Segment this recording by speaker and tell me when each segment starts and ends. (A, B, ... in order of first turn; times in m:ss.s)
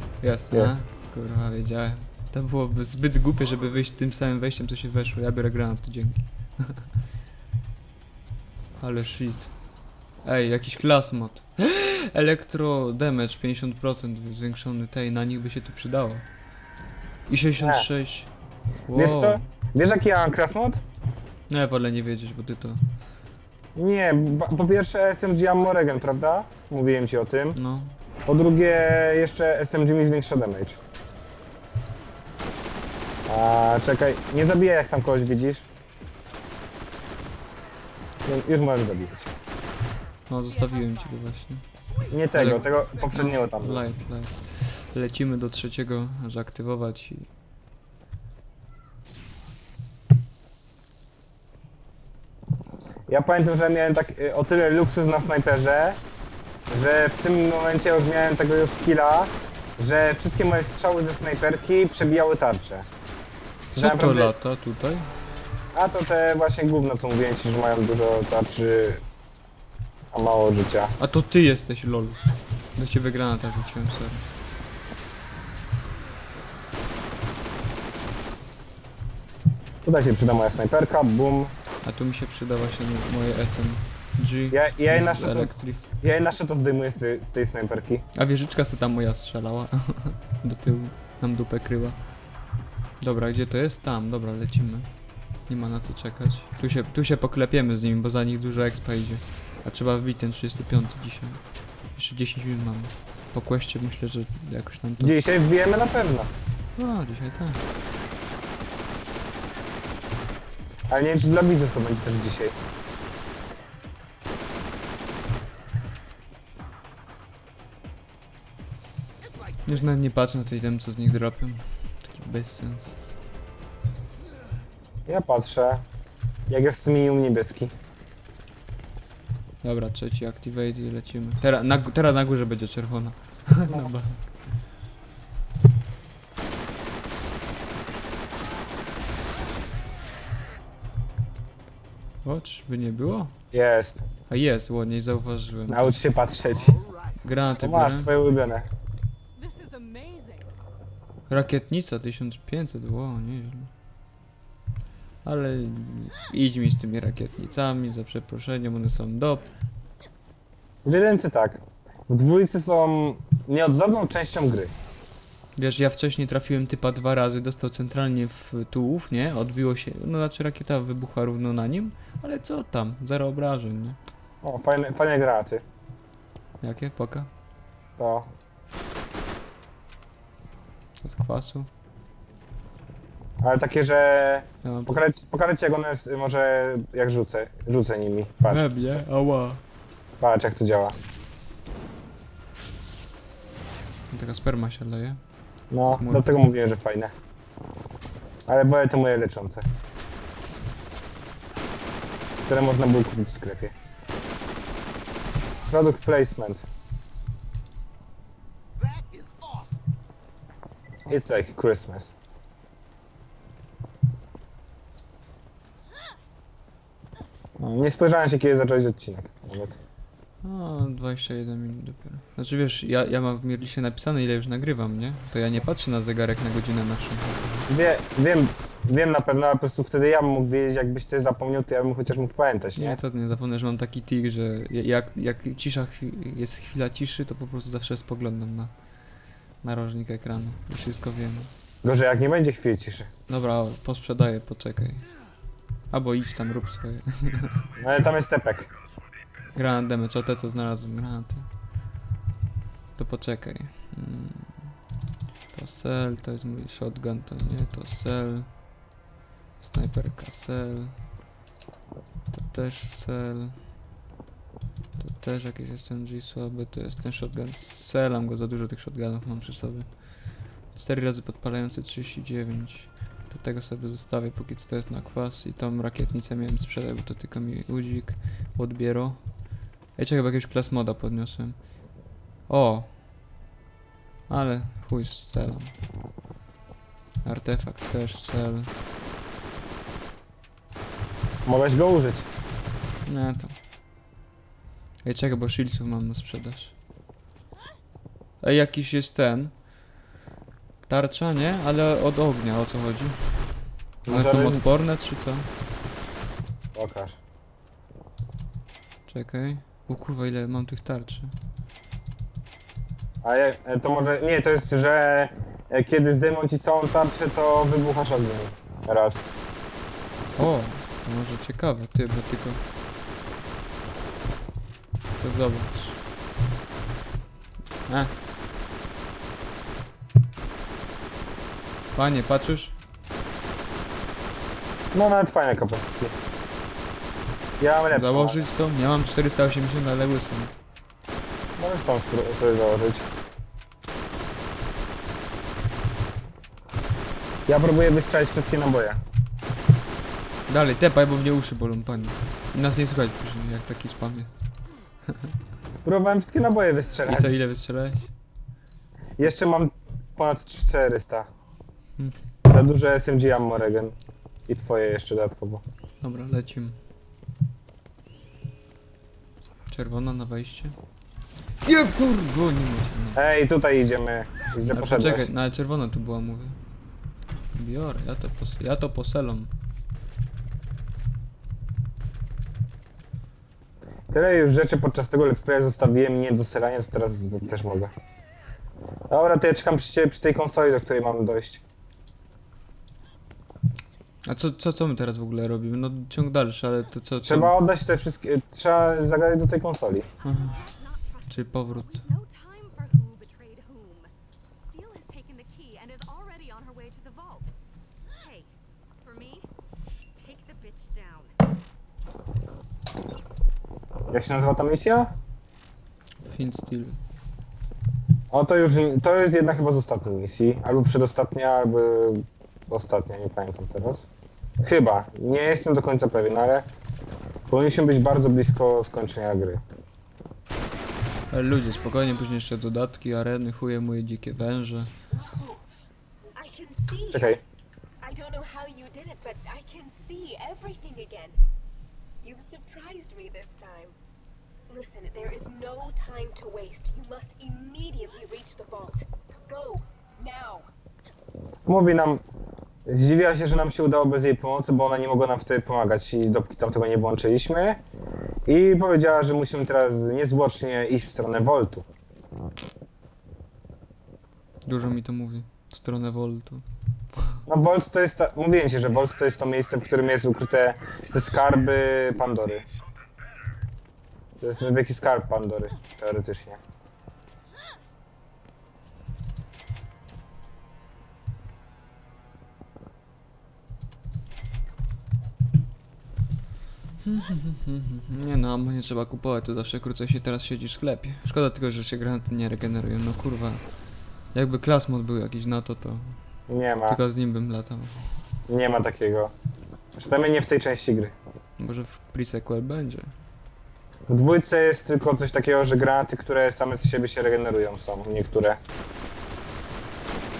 0:00.2-0:06.9 A
0:00.5-0:00.8 B
0:08.8-0:09.5 A
0:10.2-0:16.3 A
0:17.3-0:18.3 A
0:17.6-0:17.9 B
0:18.9-0:19.5 A
0:18.9-0:20.8 B
0:21.5-0:22.8 A
0:23.8-0:27.6 B
0:27.5-0:27.9 A
0:28.3-0:30.8 B
0:33.3-0:35.6 B
0:38.2-0:39.3 B
0:40.3-0:41.7 A
0:42.1-0:43.8 B
0:42.3-0:47.3 A
0:53.1-0:56.0 B
0:56.7-1:02.9 B
1:03.7-1:05.1 A
1:03.8-1:04.3 B
1:05.7-1:09.0 B
1:10.1-1:11.0 B
1:11.0-1:12.2 A
1:12.8-1:14.3 A
1:19.8-1:21.5 B
1:21.8-1:25.9 A
1:24.5-1:28.1 B
1:28.1-1:32.0 A
1:33.0-1:34.9 A
1:35.5-1:41.4 A
1:42.0-1:45.2 A
1:45.0-1:46.3 B
1:46.8-1:47.6 A
1:50.9-1:52.6 B
1:59.6-2:03.1 A
2:05.1-2:05.8 B
2:06.5-2:07.8 B
2:09.6-2:14.2 A
2:22.2-2:23.4 A
2:23.5-2:24.1 B
2:24.3-2:26.0 A
2:25.7-2:26.8 B
2:27.2-2:28.1 A
2:27.6-2:28.7 B
2:29.4-2:30.5 C
2:31.3-2:33.7 A
2:35.2-2:39.5 A
2:40.8-2:44.7 B
2:45.6-2:54.0 A
2:54.4-2:55.6 B
2:56.6-2:57.3 A
2:58.0-2:58.3 B
3:01.0-3:01.7 A
3:03.4-3:08.7 B
3:04.6-3:05.0 A
3:08.5-3:09.6 A
3:10.2-3:11.0 B
3:14.1-3:15.2 A
3:15.7-3:17.1 B
3:15.8-3:16.4 A
3:18.5-3:19.7 B
3:22.4-3:23.7 B
3:25.7-3:26.6 B
3:31.1-3:32.1 B
3:37.6-3:39.8 B
3:40.4-3:47.7 A
3:47.7-3:53.0 B
3:52.8-3:58.7 A
3:59.6-4:01.5 A
4:01.8-4:03.1 B
4:03.3-4:05.0 A
4:05.9-4:07.7 A
4:07.8-4:08.7 B
4:09.5-4:11.5 A
4:13.0-4:14.8 A
4:15.5-4:18.5 A
4:19.6-4:21.0 A
4:22.3-4:23.6 A
4:25.0-4:41.7 A
4:42.5-4:43.0 A
4:44.3-4:45.8 A
4:47.2-4:48.7 A
4:51.5-4:52.3 B
4:53.1-4:53.6 A
4:55.0-4:56.7 A
4:58.4-4:59.6 A
5:00.9-5:05.5 A
5:04.1-5:04.6 B
5:06.7-5:07.2 B
5:09.1-5:11.3 A
5:13.2-5:19.2 B
5:20.4-5:22.6 A
5:25.2-5:26.0 A
5:27.9-5:28.1 A
5:32.0-5:32.8 A
5:34.9-5:36.2 B
5:37.6-5:38.5 B
5:37.9-5:40.5 A
5:41.6-5:43.1 B
5:47.5-5:49.0 B
5:50.5-5:54.4 A
5:55.8-5:57.4 B
5:57.1-5:58.1 A
5:59.2-6:01.3 B
6:02.4-6:04.0 B
6:04.5-6:05.6 B
6:06.0-6:06.8 A
6:09.7-6:10.8 A
6:11.6-6:13.2 A
6:13.1-6:15.3 B
6:14.7-6:16.6 A
6:17.5-6:19.5 A
6:24.1-6:27.9 B
6:29.1-6:31.6 B
6:34.2-6:37.6 A
6:37.2-6:40.1 B
6:40.2-6:40.6 A
6:40.2-6:47.5 C
6:41.3-6:42.0 A
6:48.1-6:49.5 C
6:50.1-6:51.3 C
6:54.1-6:55.1 B
6:56.3-6:57.0 A
6:58.3-7:04.1 B
7:04.6-7:06.7 B
7:07.5-7:09.6 B
7:11.3-7:14.9 A
7:15.1-7:15.6 D
7:16.4-7:17.4 D
7:17.1-7:17.4 B
7:18.0-7:21.4 D
7:22.2-7:24.0 D
7:24.7-7:30.7 D
7:31.7-7:32.2 B
7:32.9-7:37.8 B
7:38.5-7:41.9 B
7:44.7-7:46.6 A
7:47.5-7:52.6 B
7:54.4-7:56.6 B
8:07.0-8:13.6 A
8:14.3-8:16.2 A
8:16.5-8:17.0 B
8:16.9-8:18.1 A
8:18.5-8:19.3 B
8:20.0-8:21.1 B
8:21.6-8:23.1 A
8:24.1-8:28.6 B